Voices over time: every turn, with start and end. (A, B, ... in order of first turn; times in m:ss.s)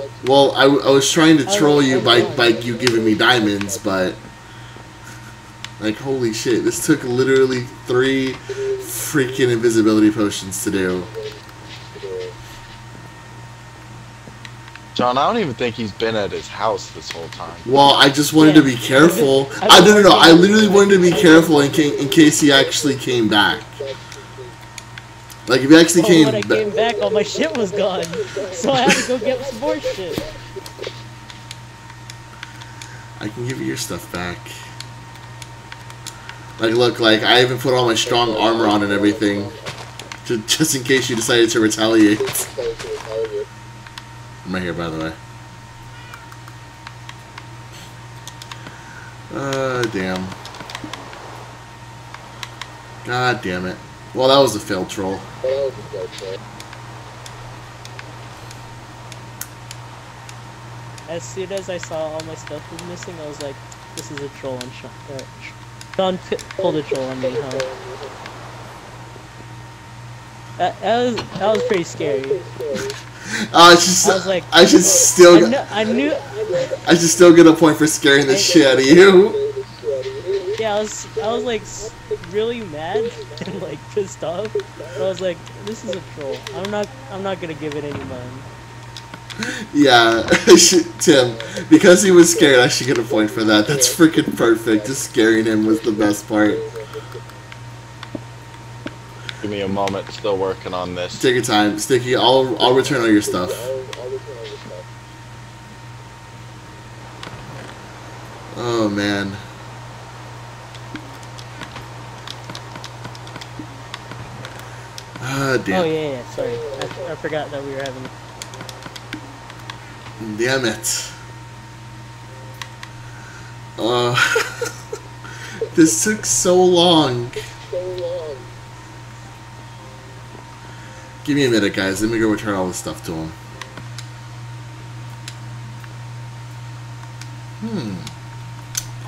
0:00.2-0:04.2 A
0:01.4-0:02.6 B
0:05.8-0:11.1 A
0:14.9-0:17.7 C
0:17.6-0:23.8 A
0:18.3-0:21.7 B
0:25.4-0:26.7 A
0:26.0-0:30.2 B
0:33.2-0:34.6 A
0:36.6-0:39.6 A
0:40.2-0:42.5 A
0:44.4-0:45.2 A
0:49.3-0:50.4 A
0:53.0-0:55.3 A
1:01.1-1:07.7 B
1:10.6-1:12.5 B
1:13.3-1:15.6 A
1:14.0-1:16.7 B
1:16.7-1:19.4 A
1:18.3-1:18.6 B
1:20.6-1:28.5 B
1:29.4-1:36.7 A
1:39.4-1:41.2 C
1:41.1-1:43.7 A
1:48.5-1:49.4 A
1:55.2-1:55.9 A
1:55.7-1:58.1 B
2:00.2-2:01.2 A
2:03.8-2:04.8 A
2:05.5-2:07.5 A
2:11.2-2:13.4 A
2:17.6-2:18.1 A